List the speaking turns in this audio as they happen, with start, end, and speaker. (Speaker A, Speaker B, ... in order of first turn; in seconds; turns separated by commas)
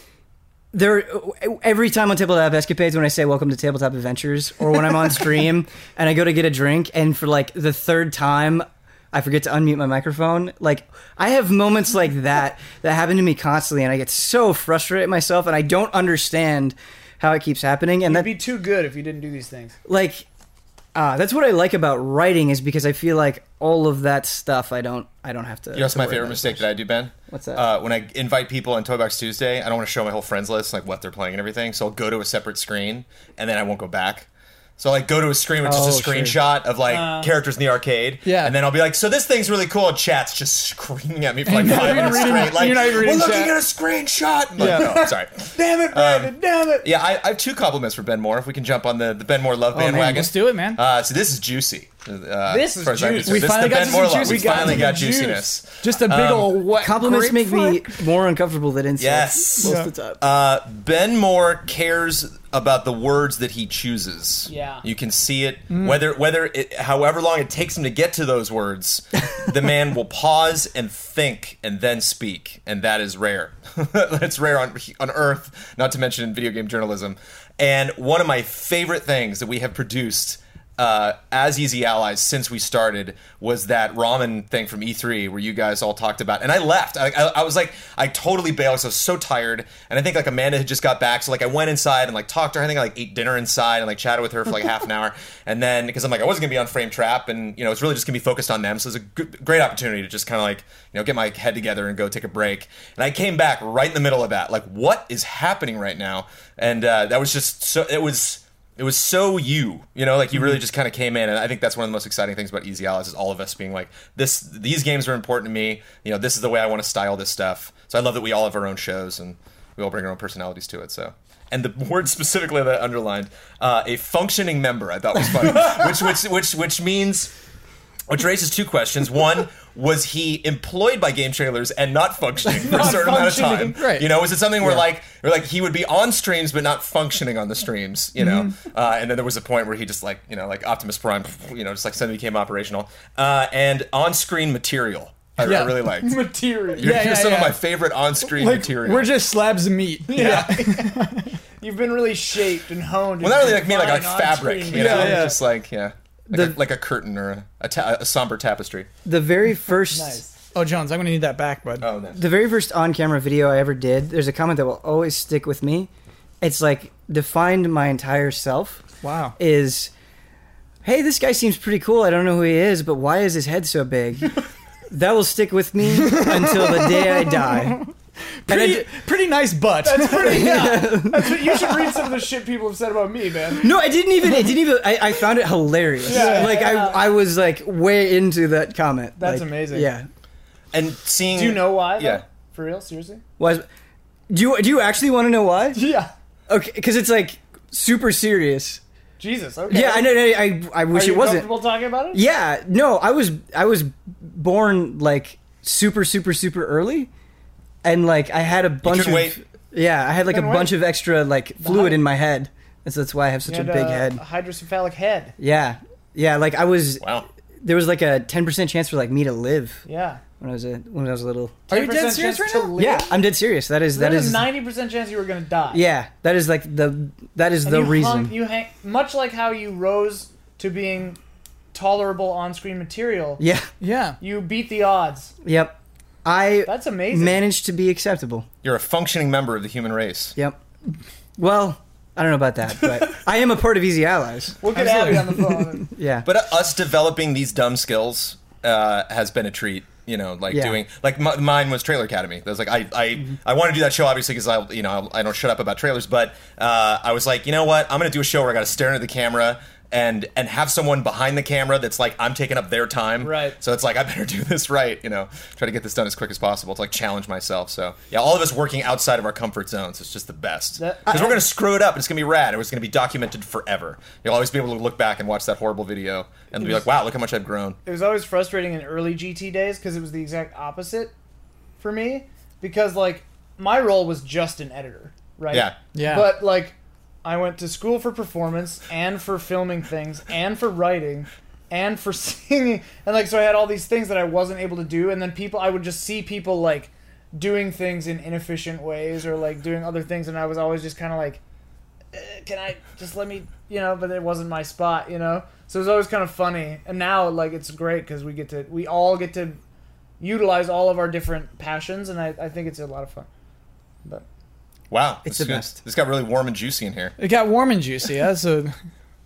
Speaker A: 0.7-18.3, Speaker B: 18.1-19.8, Speaker A: 19.9-20.2, Speaker A: 20.9-26.7, Speaker C: 25.7-34.3, Speaker A: 27.3-27.6, Speaker C: 34.8-56.6, Speaker A: 35.6-36.4, Speaker B: 36.9-37.3, Speaker D: 38.2-38.5, Speaker D: 41.5-43.5, Speaker B: 41.5-42.9, Speaker D: 44.6-45.0, Speaker B: 44.6-46.9, Speaker A: 49.7-50.3, Speaker D: 49.9-50.8, Speaker B: 52.5-55.5, Speaker D: 53.2-55.0, Speaker D: 55.8-58.0, Speaker A: 56.7-60.2, Speaker C: 59.0-127.3, Speaker B: 59.6-59.9, Speaker B: 64.5-64.8, Speaker D: 65.7-66.0, Speaker C: 128.1-149.1, Speaker B: 132.5-133.7, Speaker D: 133.6-134.1, Speaker D: 138.2-138.5, Speaker D: 145.4-145.8, Speaker B: 146.0-147.0, Speaker D: 146.8-147.6, Speaker D: 148.2-151.4, Speaker B: 150.1-151.0, Speaker B: 151.6-155.3, Speaker C: 153.2-158.9, Speaker D: 154.7-155.4, Speaker A: 156.3-156.6, Speaker A: 159.0-160.2, Speaker B: 159.9-160.3, Speaker D: 160.5-161.9, Speaker C: 161.8-162.2, Speaker A: 162.1-168.8, Speaker D: 169.0-169.3, Speaker A: 169.4-169.9, Speaker A: 170.8-174.4, Speaker A: 174.9-177.9, Speaker D: 176.0-177.9, Speaker D: 178.4-180.7, Speaker A: 178.5-178.9, Speaker B: 179.8-183.7, Speaker A: 180.1-181.6, Speaker A: 183.6-190.1, Speaker B: 186.0-187.1, Speaker D: 186.1-186.6, Speaker B: 189.2-189.9, Speaker C: 190.7-192.2, Speaker B: 191.3-193.2, Speaker A: 193.4-193.7, Speaker A: 194.3-195.9, Speaker B: 195.8-196.1, Speaker A: 196.5-198.8, Speaker B: 199.2-200.2, Speaker A: 199.7-207.1, Speaker B: 200.9-202.2, Speaker A: 207.8-214.2, Speaker C: 208.8-209.4, Speaker B: 210.2-210.8, Speaker B: 211.6-212.0, Speaker B: 213.4-215.3, Speaker A: 215.4-217.0, Speaker C: 217.0-217.2, Speaker A: 217.6-219.8, Speaker B: 219.8-220.2, Speaker A: 220.4-221.6, Speaker B: 221.7-223.2, Speaker D: 221.7-222.8, Speaker A: 222.8-224.5, Speaker B: 223.9-225.8, Speaker A: 225.7-228.3, Speaker B: 227.6-231.2, Speaker B: 231.7-233.4, Speaker A: 233.4-233.7, Speaker D: 233.8-234.2, Speaker B: 234.2-235.3, Speaker A: 235.4-238.5, Speaker B: 236.7-237.4, Speaker C: 238.6-240.3, Speaker A: 241.4-244.6, Speaker B: 244.6-245.9, Speaker D: 244.7-245.3, Speaker A: 245.2-246.3, Speaker C: 246.2-277.8, Speaker A: 250.5-250.8, Speaker B: 263.2-263.6, Speaker B: 270.8-271.4, Speaker B: 277.8-281.1, Speaker B: 281.8-301.4, Speaker D: 285.9-286.3, Speaker B: 302.1-309.6, Speaker B: 310.2-313.3, Speaker C: 314.9-317.1, Speaker A: 315.2-315.8, Speaker D: 317.2-318.7